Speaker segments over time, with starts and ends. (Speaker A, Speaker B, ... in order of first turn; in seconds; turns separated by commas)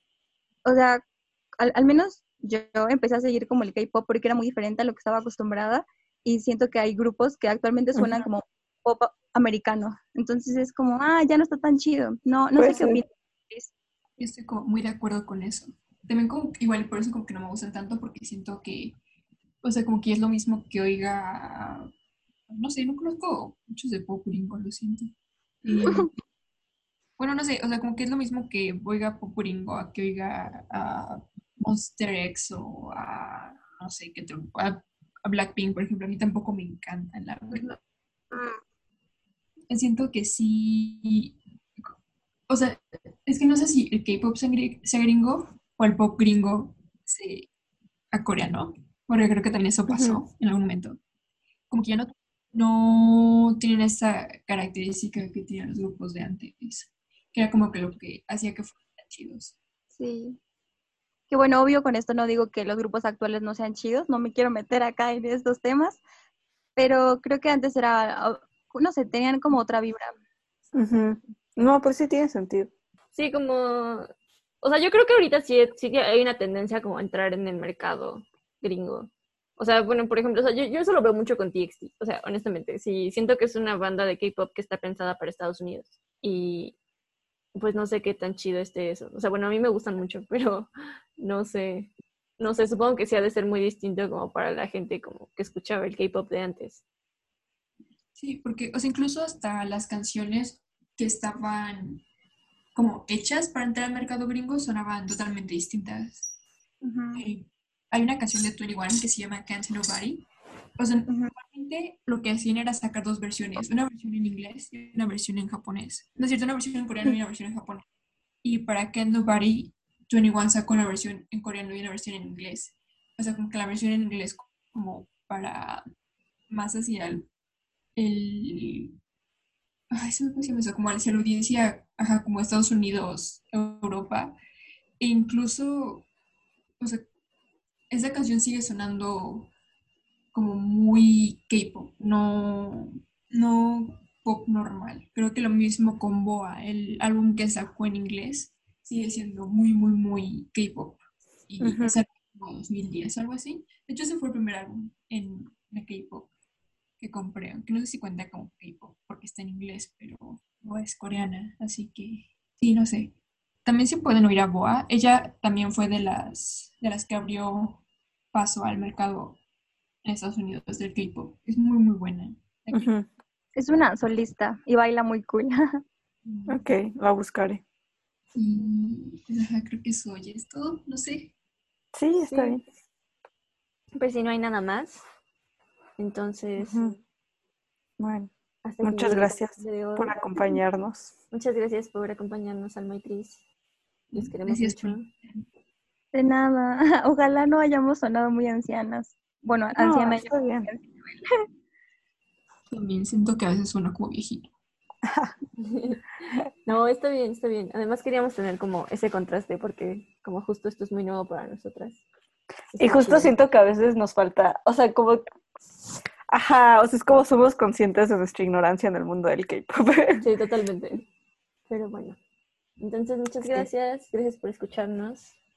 Speaker A: 0.7-1.0, Speaker A: 1.6-13.7, Speaker B: 8.0-8.2, Speaker B: 12.6-13.0, Speaker C: 14.2-19.0, Speaker C: 19.6-21.9, Speaker C: 22.5-25.1, Speaker C: 25.6-26.2, Speaker A: 25.7-26.1, Speaker C: 27.2-37.7, Speaker C: 39.7-41.9, Speaker C: 42.5-47.5, Speaker C: 48.1-51.0, Speaker C: 51.7-59.6, Speaker A: 60.0-60.4, Speaker A: 61.3-66.0, Speaker A: 66.8-70.1, Speaker B: 70.7-72.7, Speaker D: 73.1-74.1, Speaker D: 74.6-86.7, Speaker D: 87.6-96.8, Speaker C: 98.2-102.0, Speaker C: 102.7-106.3, Speaker A: 106.8-107.2, Speaker C: 107.2-110.2, Speaker C: 110.8-117.8, Speaker C: 118.4-125.8, Speaker C: 126.5-127.3, Speaker C: 128.0-128.9, Speaker C: 129.9-134.3, Speaker C: 135.0-136.1, Speaker C: 136.8-137.1, Speaker C: 137.9-139.5, Speaker C: 140.3-156.3, Speaker B: 151.6-152.0, Speaker C: 157.0-163.1, Speaker C: 163.7-167.8, Speaker C: 168.3-169.4, Speaker C: 170.0-172.9, Speaker B: 172.7-173.1, Speaker A: 173.6-175.8, Speaker C: 176.2-176.7, Speaker B: 176.5-177.6, Speaker C: 178.3-181.3, Speaker B: 181.9-182.6, Speaker D: 182.3-182.6, Speaker D: 183.9-185.0, Speaker D: 186.0-187.0, Speaker B: 186.6-186.9, Speaker B: 188.0-188.3, Speaker D: 188.7-190.6, Speaker B: 188.8-191.1, Speaker D: 191.3-193.4, Speaker D: 194.1-195.1, Speaker C: 194.1-195.4, Speaker A: 196.1-201.3, Speaker B: 199.8-200.7, Speaker C: 202.7-204.5, Speaker B: 205.1-205.3, Speaker D: 205.6-206.0, Speaker D: 206.7-212.0, Speaker D: 212.7-213.3, Speaker B: 212.8-215.2, Speaker B: 216.3-220.2, Speaker D: 220.2-221.1, Speaker D: 221.7-222.2, Speaker D: 222.8-225.4